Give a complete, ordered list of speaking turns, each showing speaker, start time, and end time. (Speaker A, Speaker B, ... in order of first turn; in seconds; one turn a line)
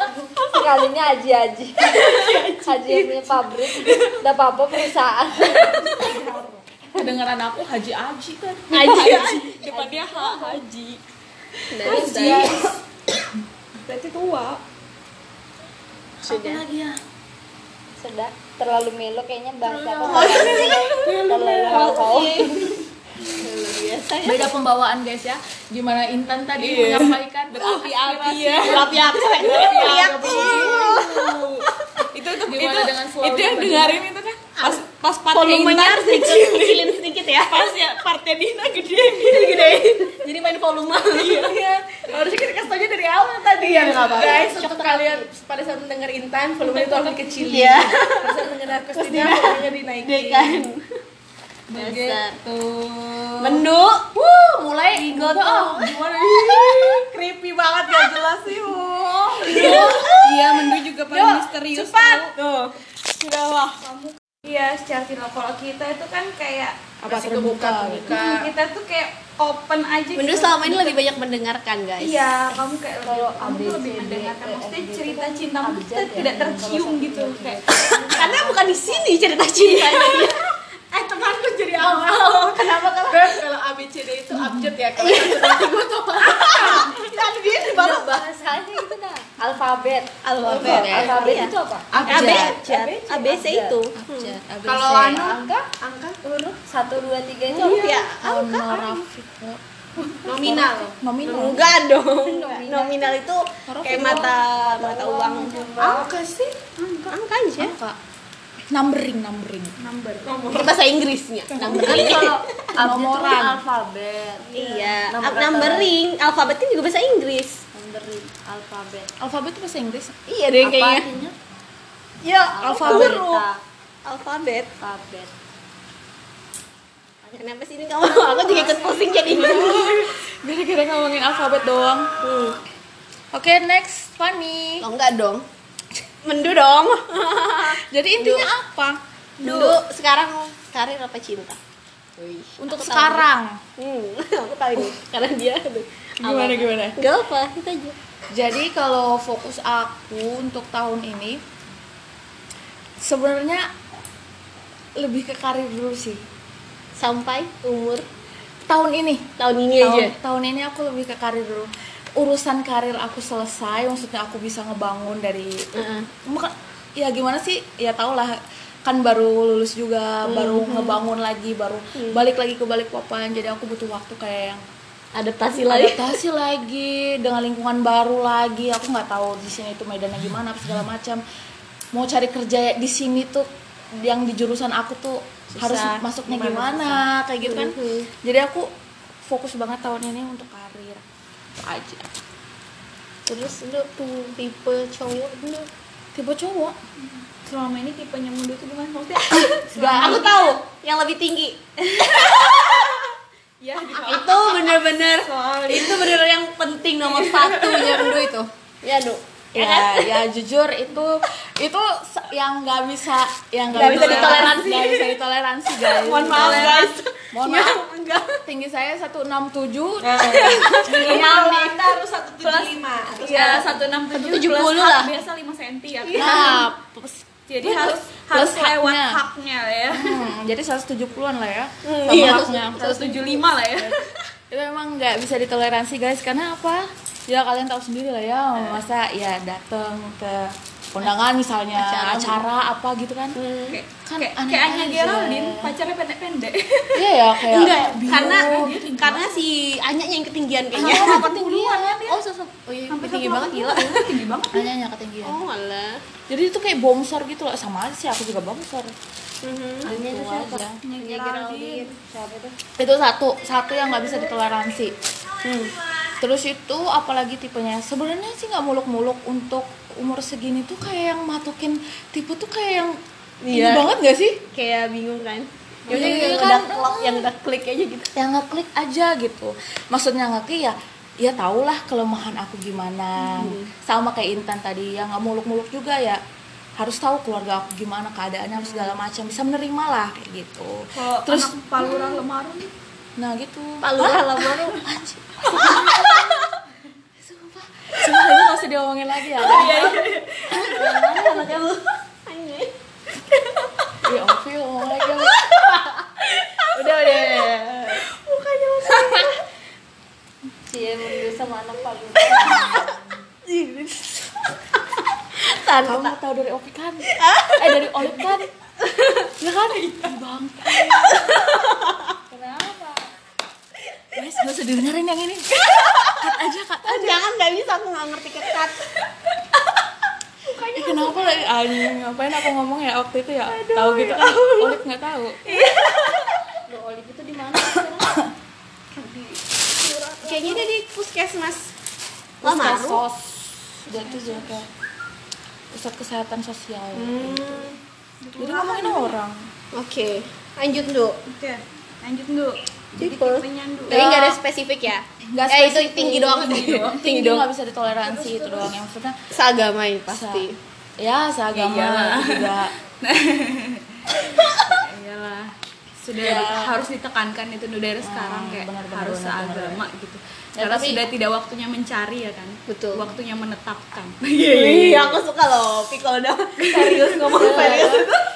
Speaker A: 0.4-0.6
Speaker B: 0.5-5.8
Speaker A: 1.8-4.2
Speaker A: 5.5-6.6
Speaker C: 7.0-10.5
Speaker A: 8.7-11.0
Speaker D: 8.7-9.5
Speaker B: 9.7-10.1
Speaker D: 11.7-12.5
Speaker A: 11.8-12.6
Speaker C: 11.8-12.7
Speaker A: 13.8-14.6
Speaker C: 16.2-17.0
Speaker D: 16.3-16.6
Speaker B: 18.0-22.7
Speaker E: 19.9-20.8
Speaker A: 20.0-22.2
Speaker D: 20.0-22.9
Speaker D: 23.4-24.5
Speaker C: 24.2-31.0
Speaker A: 26.6-39.9
Speaker D: 26.8-27.1
Speaker D: 28.1-32.2
Speaker C: 32.5-34.0
Speaker D: 34.6-37.2
Speaker D: 39.1-41.6
Speaker A: 41.1-41.7
Speaker E: 41.9-50.7
Speaker D: 43.6-45.3
Speaker C: 46.7-47.9
Speaker D: 47.4-50.9
Speaker D: 51.7-52.4
Speaker C: 51.7-52.2
Speaker D: 53.4-54.1
Speaker C: 54.2-56.8
Speaker D: 55.0-60.7
Speaker A: 59.4-62.3
Speaker E: 59.5-60.0
Speaker C: 59.5-60.0
Speaker D: 61.7-62.7
Speaker A: 63.1-66.8
Speaker C: 67.0-68.2
Speaker E: 67.1-68.5
Speaker A: 68.1-71.0
Speaker D: 70.2-72.2
Speaker A: 72.0-78.1
Speaker B: 73.0-78.6
Speaker D: 78.1-80.5
Speaker A: 79.5-83.0
Speaker D: 82.5-83.4
Speaker E: 83.0-87.1
Speaker C: 84.3-84.7
Speaker D: 85.0-88.2
Speaker B: 87.8-92.0
Speaker D: 90.2-91.5
Speaker E: 90.5-91.4
Speaker C: 90.5-91.4
Speaker C: 91.9-92.6
Speaker E: 91.9-92.7
Speaker D: 92.1-94.4
Speaker B: 92.7-93.8
Speaker C: 93.9-95.3
Speaker E: 94.7-96.2
Speaker B: 95.0-95.7
Speaker B: 96.2-98.0
Speaker D: 97.6-99.0
Speaker C: 98.2-99.6
Speaker E: 100.2-101.0
Speaker C: 100.3-101.7
Speaker D: 101.3-106.0
Speaker B: 102.2-103.2
Speaker C: 103.7-104.3
Speaker B: 104.5-106.1
Speaker E: 105.8-106.6
Speaker A: 106.8-107.2
Speaker D: 107.1-107.8
Speaker C: 107.6-108.0
Speaker C: 108.7-109.8
Speaker A: 109.8-110.3
Speaker E: 110.3-110.8
Speaker D: 110.5-112.8
Speaker C: 111.6-113.6
Speaker B: 111.7-115.9
Speaker D: 114.5-117.6
Speaker B: 117.8-119.1
Speaker C: 119.2-120.2
Speaker D: 120.3-121.1
Speaker B: 120.6-121.3
Speaker D: 122.2-123.4
Speaker B: 122.5-123.6
Speaker C: 122.8-123.2
Speaker D: 124.0-124.7
Speaker B: 124.8-125.3
Speaker D: 127.3-130.1
Speaker C: 129.3-132.2
Speaker D: 132.2-132.6
Speaker C: 133.3-134.8
Speaker D: 134.8-135.4
Speaker D: 136.2-138.5
Speaker C: 137.7-139.8
Speaker D: 139.4-141.6
Speaker D: 142.2-143.2
Speaker C: 142.6-143.6
Speaker D: 143.8-147.9
Speaker C: 146.2-147.0
Speaker C: 148.3-151.4
Speaker C: 153.0-153.7
Speaker C: 155.0-156.2
Speaker D: 157.0-158.1
Speaker C: 158.7-165.7
Speaker D: 159.4-160.2
Speaker D: 165.8-166.1
Speaker C: 166.3-174.6
Speaker D: 170.2-171.0
Speaker D: 171.9-172.2
Speaker D: 175.2-176.2
Speaker C: 175.7-181.2
Speaker C: 181.9-183.5
Speaker C: 184.0-188.7
Speaker D: 185.5-186.0
Speaker E: 186.3-187.0
Speaker D: 187.4-188.1
Speaker C: 189.3-191.0
Speaker C: 191.6-192.1
Speaker D: 193.3-195.7
Speaker C: 196.2-196.8
Speaker A: 197.1-200.6
Speaker C: 199.7-200.3
Speaker D: 200.0-203.1
Speaker A: 201.8-206.2
Speaker D: 203.9-210.2
Speaker A: 207.0-208.3
Speaker C: 209.5-217.8
Speaker D: 213.7-218.4
Speaker A: 213.8-214.5
Speaker A: 216.3-216.8
Speaker C: 218.4-221.0
Speaker D: 220.1-223.6
Speaker E: 220.1-223.7
Speaker A: 220.7-221.4
Speaker A: 223.2-226.6
Speaker D: 224.2-225.1
Speaker D: 226.1-226.5
Speaker C: 226.1-229.2
Speaker A: 227.5-230.2
Speaker C: 230.0-232.9
Speaker D: 231.8-233.4
Speaker A: 232.8-234.0
Speaker C: 234.5-243.4
Speaker D: 241.7-242.4
Speaker D: 243.4-243.8
Speaker A: 243.7-247.1
Speaker C: 244.1-245.7
Speaker C: 246.9-249.0
Speaker D: 247.5-254.1
Speaker A: 247.6-249.4
Speaker C: 250.7-252.2
Speaker A: 251.0-251.4
Speaker A: 252.9-254.7
Speaker C: 254.5-255.4
Speaker D: 255.2-256.0
Speaker C: 256.3-258.9
Speaker D: 259.4-259.9
Speaker B: 259.8-262.6
Speaker C: 259.9-260.8
Speaker A: 260.8-261.9
Speaker C: 262.8-265.0
Speaker D: 265.4-265.8
Speaker C: 266.2-273.0
Speaker D: 273.4-273.9
Speaker C: 273.5-274.4
Speaker D: 274.5-278.1
Speaker C: 275.9-277.3
Speaker C: 278.2-286.2
Speaker D: 283.2-283.7
Speaker C: 286.8-292.2
Speaker D: 288.6-288.9
Speaker A: 290.9-292.7
Speaker C: 293.2-296.6
Speaker D: 293.8-294.8
Speaker D: 295.5-296.6
Speaker C: 297.2-301.6
Speaker A: 299.4-300.3
Speaker D: 299.4-302.7
Speaker D: 303.3-303.9
Speaker C: 304.0-305.4
Speaker D: 305.2-308.1
Speaker A: 306.8-307.4
Speaker A: 308.6-309.2
Speaker D: 308.8-309.3
Speaker B: 310.7-313.0
Speaker D: 312.2-314.2
Speaker D: 315.4-316.1
Speaker C: 315.8-318.5
Speaker D: 317.1-319.3
Speaker C: 319.4-321.4
Speaker D: 320.8-322.1
Speaker B: 322.3-323.1
Speaker C: 324.1-327.2
Speaker D: 325.5-328.9
Speaker C: 330.8-335.4
Speaker D: 333.5-334.8
Speaker D: 335.4-336.4
Speaker B: 336.7-338.1
Speaker D: 340.2-341.7
Speaker C: 342.4-344.7
Speaker D: 342.4-343.0
Speaker A: 343.9-344.6
Speaker C: 345.7-347.7
Speaker D: 346.9-347.8
Speaker A: 348.2-349.1
Speaker C: 348.4-349.5
Speaker D: 349.7-351.2
Speaker A: 351.3-354.1
Speaker D: 353.0-357.5
Speaker C: 353.9-354.4
Speaker C: 355.4-359.2
Speaker A: 356.6-356.9
Speaker A: 358.0-358.7
Speaker D: 359.3-360.6
Speaker C: 360.1-360.5
Speaker C: 361.0-362.7
Speaker A: 361.5-375.2
Speaker C: 366.2-366.7
Speaker C: 368.0-369.8
Speaker C: 370.6-371.0
Speaker D: 372.7-373.1
Speaker D: 374.5-378.3
Speaker A: 376.6-377.9
Speaker C: 377.3-378.1